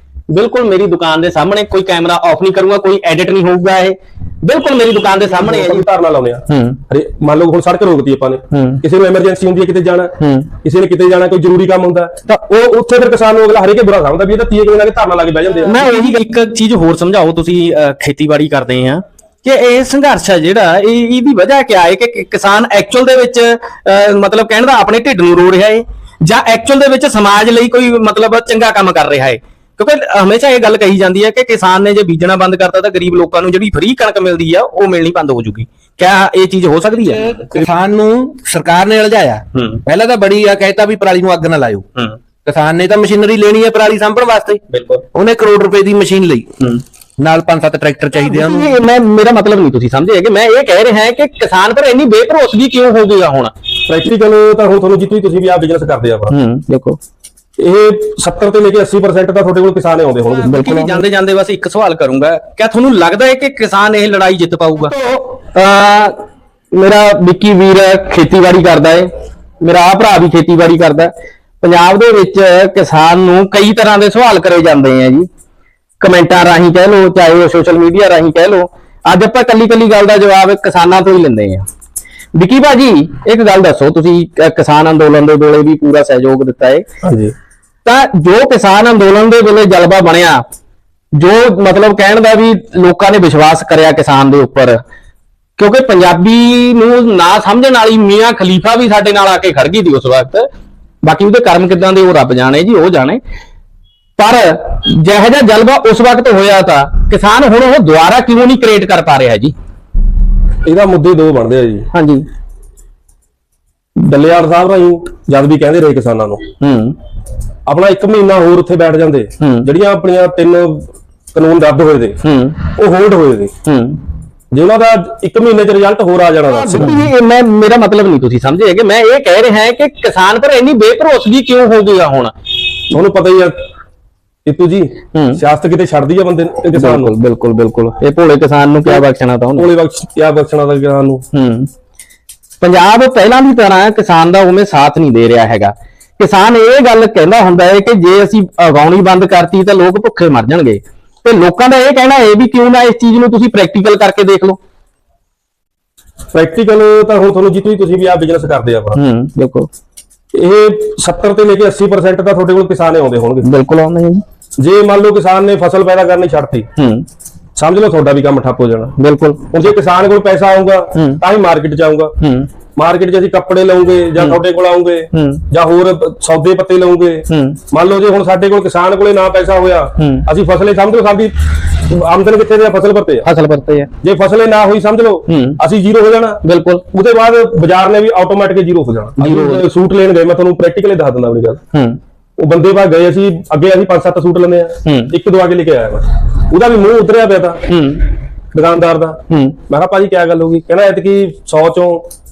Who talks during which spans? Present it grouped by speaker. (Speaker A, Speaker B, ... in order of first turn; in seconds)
Speaker A: 0.3-5.9, 6.5-6.8, 8.5-8.8, 10.2-10.5, 15.6-37.2, 39.5-39.8, 44.7-45.0, 48.1-53.5, 56.3-57.0, 60.2-66.2, 66.7-69.1, 69.6-75.3, 76.0-81.7, 82.3-86.9, 87.8-90.4, 91.1-94.8, 95.6-100.5, 101.0-103.2, 104.2-109.5, 111.9-112.3, 116.6-117.0, 119.4-119.7, 122.2-122.6, 123.7-124.0, 126.5-132.3, 135.2-135.4, 136.7-139.7, 141.3-141.7, 142.6-154.6, 158.9-159.7, 163.4-164.2, 166.8-167.1, 169.0-169.7, 170.9-171.2, 172.2-172.5, 175.1-175.4, 177.3-177.6, 180.0-180.3, 183.2-183.9, 185.3-185.6, 186.4-186.8, 189.2-189.7, 191.7-192.0, 194.8-195.2, 197.7-198.1, 199.3-199.6
Speaker B: 5.3-10.1, 10.6-15.9, 53.9-56.3, 57.6-61.0, 87.0-87.3, 110.7-111.9, 114.0-116.4, 117.7-122.2, 122.8-123.5, 124.5-127.0, 132.9-133.6, 134.5-137.1, 139.6-141.2, 156.3-159.0, 160.3-163.5, 164.6-166.7, 167.6-168.9, 169.5-172.1, 172.8-183.3, 184.0-191.6, 192.4-197.6, 198.5-202.1
Speaker C: 37.0-41.9, 42.5-44.6, 45.1-46.5, 47.2-48.7